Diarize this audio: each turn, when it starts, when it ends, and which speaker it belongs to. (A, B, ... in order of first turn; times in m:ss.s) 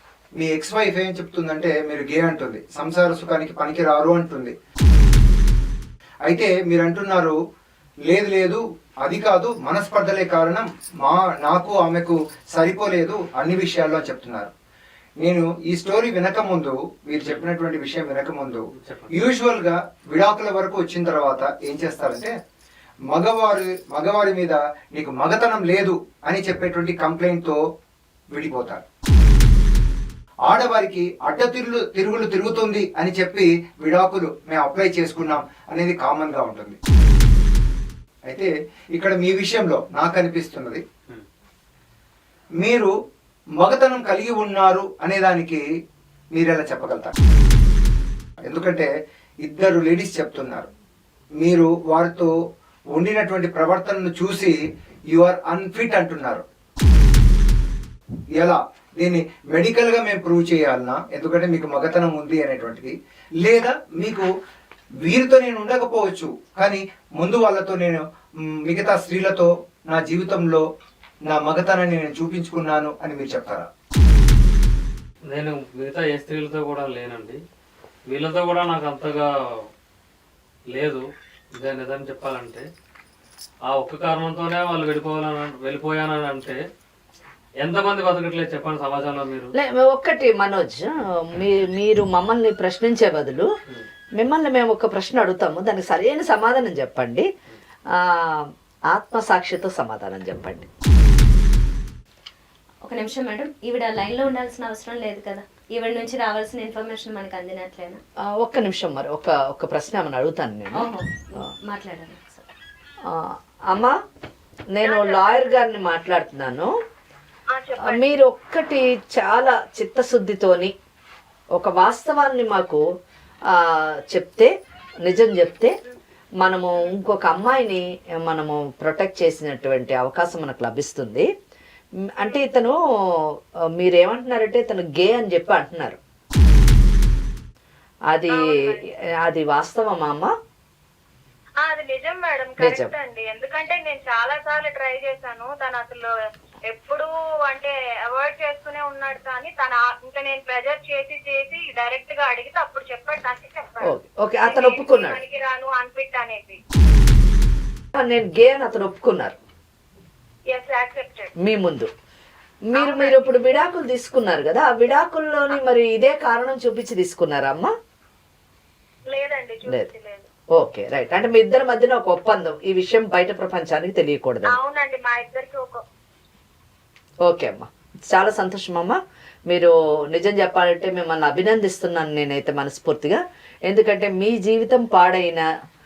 0:00.3-0:04.5 A
0:06.2-0:07.4 A
0:08.1-0:14.5 A
0:15.2-0:22.3 A
0:17.2-0:17.5 B
0:18.8-0:19.2 B
0:23.1-0:27.6 A
0:28.3-0:28.8 A
0:30.5-0:36.8 A
0:38.2-0:40.8 A
0:42.6-0:42.9 A
0:43.6-0:45.6 A
0:46.3-0:47.1 A
0:48.4-0:48.9 A
0:49.4-0:50.7 A
0:51.4-0:52.3 A
0:52.9-0:54.6 A
0:55.1-0:56.4 A
0:58.4-1:04.3 A
1:05.0-1:08.0 A
1:08.6-1:10.6 A
1:11.3-1:13.7 A
1:15.3-1:17.4 B
1:18.1-1:19.3 B
1:20.7-1:21.0 B
1:21.6-1:22.6 B
1:23.7-1:26.6 B
1:27.6-1:29.5 B
1:29.6-1:33.5 C
1:34.2-1:37.3 C
1:37.9-1:40.7 C
1:42.8-1:48.0 D
1:48.4-1:50.9 C
1:50.7-1:52.5 D
1:53.1-1:54.0 C
1:54.7-1:56.7 C
1:54.8-1:55.4 E
1:57.5-1:58.0 E
1:57.8-2:00.7 C
2:01.5-2:02.8 C
2:03.5-2:04.5 C
2:05.0-2:05.7 C
2:06.4-2:11.3 C
2:12.2-2:16.0 C
2:18.1-2:18.5 C
2:18.3-2:18.8 E
2:19.2-2:20.3 C
2:21.6-2:26.1 E
2:22.6-2:22.9 C
2:26.7-2:36.6 E
2:33.8-2:35.2 C
2:37.9-2:39.4 C
2:40.5-2:41.3 E
2:41.4-2:41.9 C
2:42.7-2:47.7 C
2:42.7-2:43.3 E
2:49.1-2:50.3 E
2:50.5-2:54.5 C
2:54.4-2:55.8 E
2:57.2-2:59.0 C
2:59.5-3:05.5 C